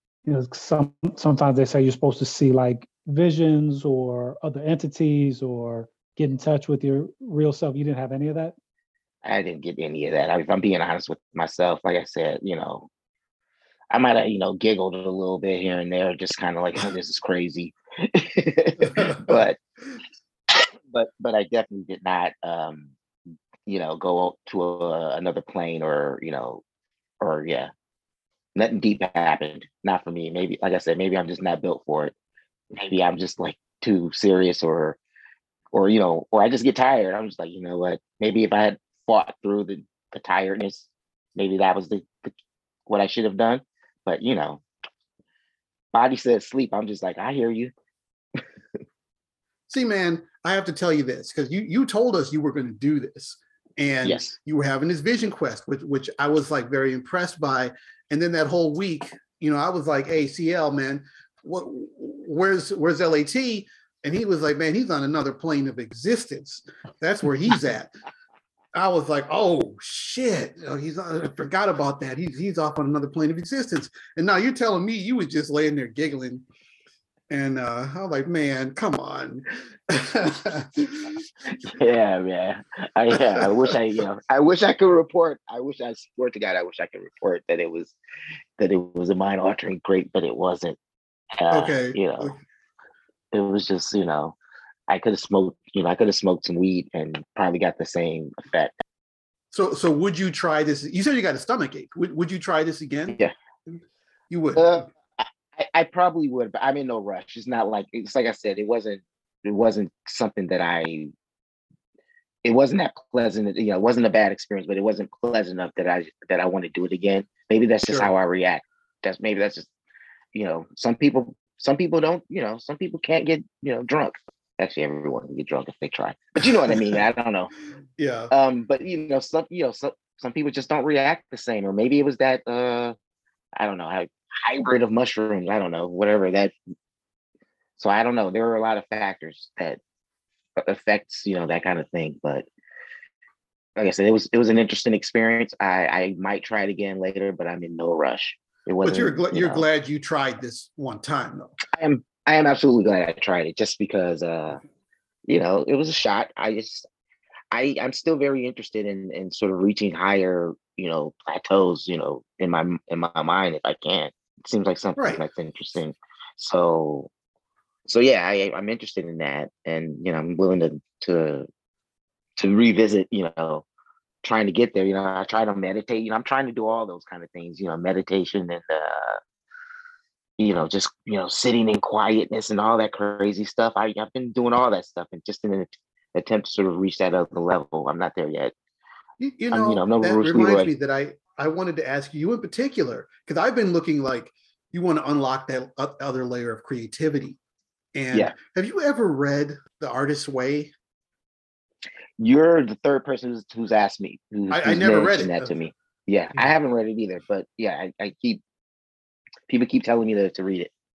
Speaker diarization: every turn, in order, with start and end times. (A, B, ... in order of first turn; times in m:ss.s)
0:00.2-0:08.5 A
0:09.2-0:12.9 B
0:13.9-0:19.6 B
0:18.9-0:19.5 C
0:20.5-0:22.9 B
0:23.7-0:26.6 B
0:27.2-0:27.7 B
0:28.6-0:32.1 B
0:32.7-0:35.0 B
0:35.7-0:42.3 B
0:42.9-0:44.6 B
0:45.9-0:47.7 B
0:49.7-1:07.9 C
0:54.0-0:54.3 B
1:08.7-1:16.5 C
1:17.3-1:21.2 C
1:21.5-1:28.0 B
1:23.1-1:23.8 C
1:28.6-1:30.8 B
1:31.4-1:32.3 B
1:31.5-1:32.3 C
1:33.3-1:34.3 B
1:34.9-1:38.7 B
1:39.5-1:43.8 C
1:44.3-1:44.7 C
1:44.5-1:51.1 B
1:52.4-1:59.7 B
2:00.3-2:07.5 B
2:06.6-2:07.0 C
2:08.0-2:08.3 C
2:08.3-2:13.0 B
2:13.6-2:16.5 B
2:17.8-2:19.8 B
2:20.6-2:22.4 B
2:23.8-2:29.6 B
2:28.8-2:31.5 C
2:31.7-2:34.6 B
2:35.3-2:36.8 B
2:37.5-2:47.1 B
2:45.0-2:45.2 C
2:47.9-2:51.5 B
2:52.4-2:53.6 B
2:54.2-2:59.2 B
3:00.4-3:08.5 B
3:09.2-3:17.4 C
3:09.5-3:10.7 B
3:18.0-3:20.7 C
3:22.2-3:28.4 B
3:24.5-3:25.5 C
3:29.5-3:30.7 B